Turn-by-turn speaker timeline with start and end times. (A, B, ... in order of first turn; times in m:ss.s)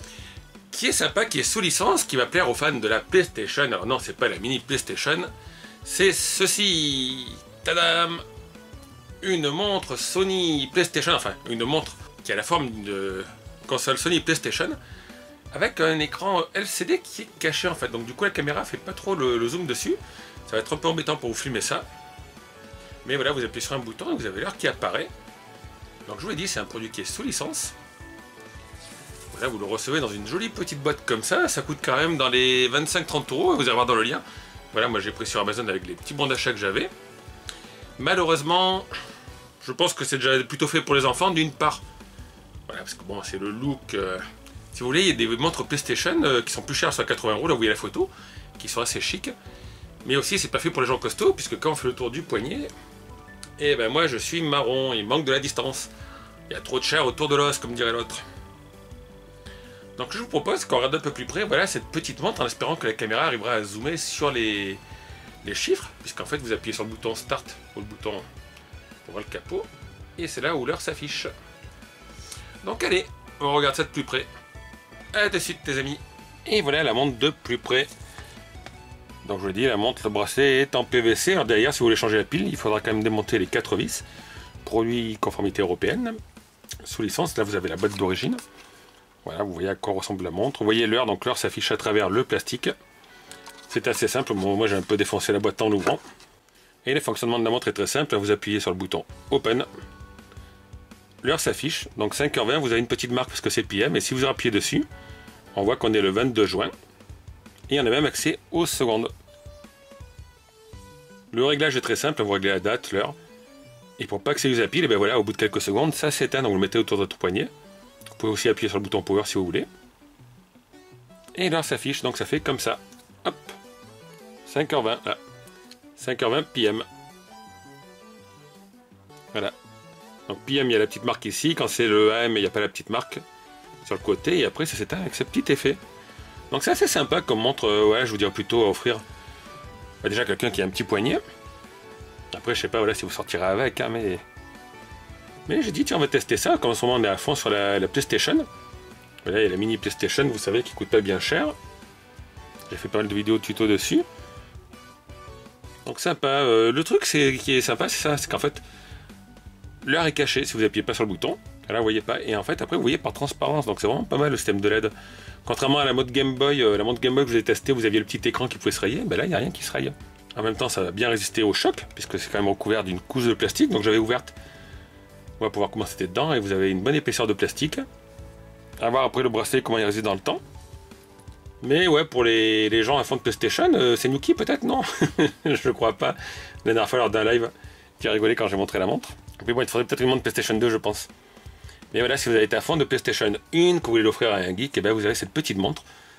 0:00.7-0:05.3 A
0:05.8-0:08.2 A
0:09.2-0:14.8 A
0:15.5-0:21.9 A
0:23.0-0:25.1 A
0:26.1-0:27.8 A
0:29.3-0:36.9 A
0:38.0-0:38.9 A
0:39.6-0:41.8 A
0:42.7-0:49.4 A
0:50.0-0:52.7 A
0:53.6-0:55.9 A
0:56.5-0:58.2 A
1:00.0-1:04.8 A
1:05.4-1:08.3 A
1:09.0-1:11.3 A
1:12.6-1:14.3 A
1:15.1-1:17.9 A
1:19.2-1:24.0 A
1:24.6-1:26.2 A
1:26.8-1:28.4 A
1:29.2-1:32.7 A
1:33.7-1:36.0 A
1:36.8-1:39.7 A
1:41.2-1:44.9 A
1:45.5-1:46.7 A
1:47.7-1:49.1 A
1:51.3-1:53.2 A
1:54.0-1:57.5 A
1:58.2-1:59.7 A
2:01.3-2:03.6 A
2:04.4-2:05.2 A
2:06.0-2:06.8 A
2:10.3-2:13.2 A
2:13.8-2:15.8 A
2:16.5-2:19.0 A
2:20.0-2:21.2 A
2:22.3-2:24.2 A
2:25.4-2:28.5 A
2:29.2-2:31.6 A
2:32.7-2:34.1 A
2:35.8-2:38.6 A
2:39.8-2:44.9 A
2:45.4-2:54.4 A
2:55.4-2:57.8 A
2:58.8-3:00.4 A
3:01.6-3:11.1 A
3:11.9-3:15.8 A